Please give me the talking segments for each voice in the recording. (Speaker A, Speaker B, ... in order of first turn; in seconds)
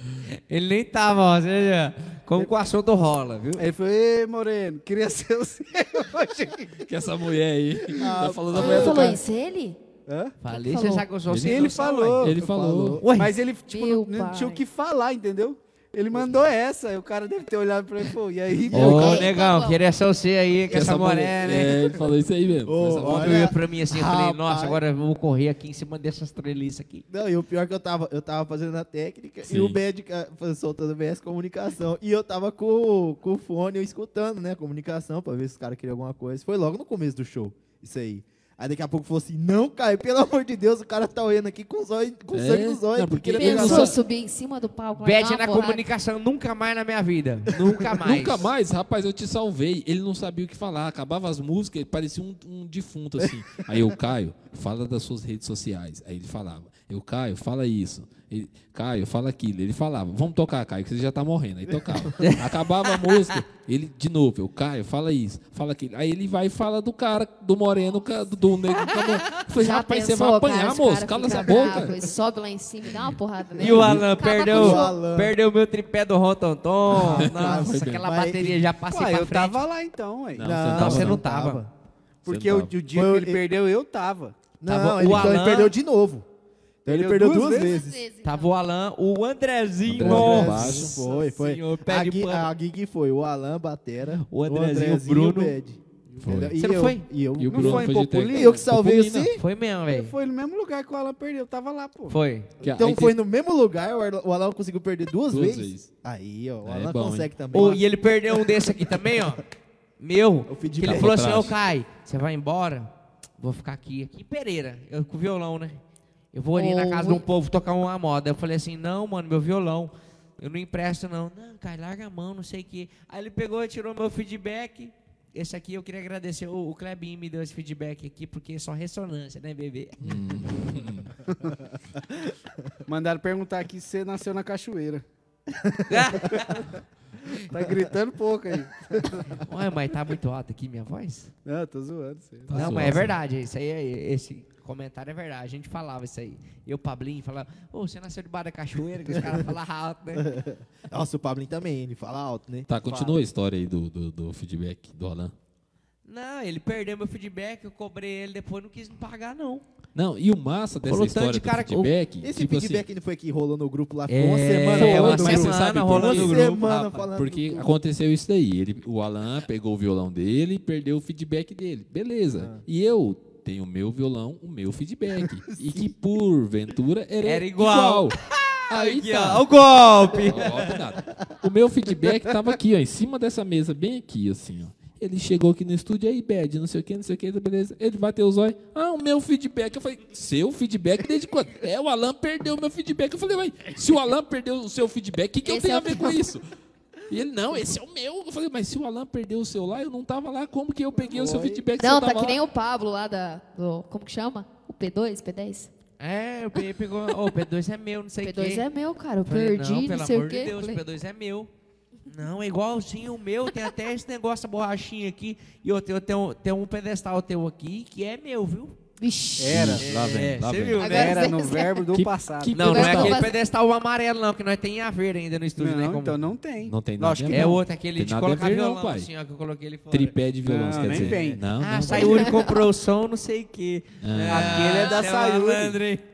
Speaker A: 0.2-3.7, 10.4-12.2, 13.0-13.3, 18.7-21.6, 23.0-27.1, 45.0-48.5, 62.2-62.5, 73.6-79.6, 80.7-81.7, 84.7-85.7, 88.2-92.5, 94.3-95.6, 96.6-97.0, 99.3-100.1, 102.1-102.5, 107.5-109.4, 110.0-115.8, 116.3-130.0, 135.9-136.7, 139.3-141.3, 142.5-150.3, 156.1-159.6, 160.8-161.9, 164.1-167.1, 177.2-180.8, 206.0-208.7, 209.2-211.5, 212.1-218.8, 219.8-221.3, 222.5-226.2, 227.3-230.1, 230.8-236.0
Speaker B: 3.6-6.8, 8.6-8.9, 10.1-10.4, 11.4-12.3, 13.1-19.2, 21.4-22.0, 78.9-80.5, 82.2-84.4, 86.8-87.8, 97.5-98.7, 99.9-102.2, 131.3-131.6, 132.8-135.0, 137.3-139.4, 141.4-143.0, 152.9-153.1, 201.0-201.6, 219.4-219.8, 220.8-222.5, 225.6-227.6, 230.4-231.4, 234.3-235.8
Speaker C: 6.8-9.2, 11.3-13.0, 20.7-23.5, 29.4-29.8, 42.3-44.0, 48.0-72.0, 73.7-74.0, 77.0-78.1, 80.3-81.2, 82.2-82.8, 89.9-91.0, 96.2-96.6, 97.4-99.3, 102.6-103.1, 105.3-105.9, 106.6-107.3, 110.8-111.5, 130.0-131.2, 142.5-143.2, 152.7-155.3, 159.9-162.8, 164.7-166.5, 167.1-178.2, 178.7-179.5, 180.1-196.4, 197.1-202.4, 219.5-220.9, 221.9-223.2, 226.6-229.1, 229.9-232.3, 234.0-235.1
Speaker D: 7.9-9.2, 12.3-13.1, 18.8-19.2, 22.6-24.8, 27.1-44.0, 53.2-53.8, 61.7-62.2, 73.7-75.3, 76.9-78.6, 80.4-81.7, 82.9-83.4, 84.6-86.3, 86.8-88.0, 90.0-99.4, 102.6-107.8, 108.5-108.7, 110.5-111.2, 135.5-136.4, 150.2-153.0, 162.2-167.7, 172.4-172.6, 175.4-175.9
Speaker E: 8.5-9.8, 10.5-11.1, 13.7-14.6, 18.9-19.8, 43.3-45.8, 69.4-75.0, 87.6-88.5, 116.5-117.2, 195.4-196.2, 201.8-205.7, 208.2-210.8, 219.0-219.7, 220.8-221.9, 222.6-223.3, 231.9-232.6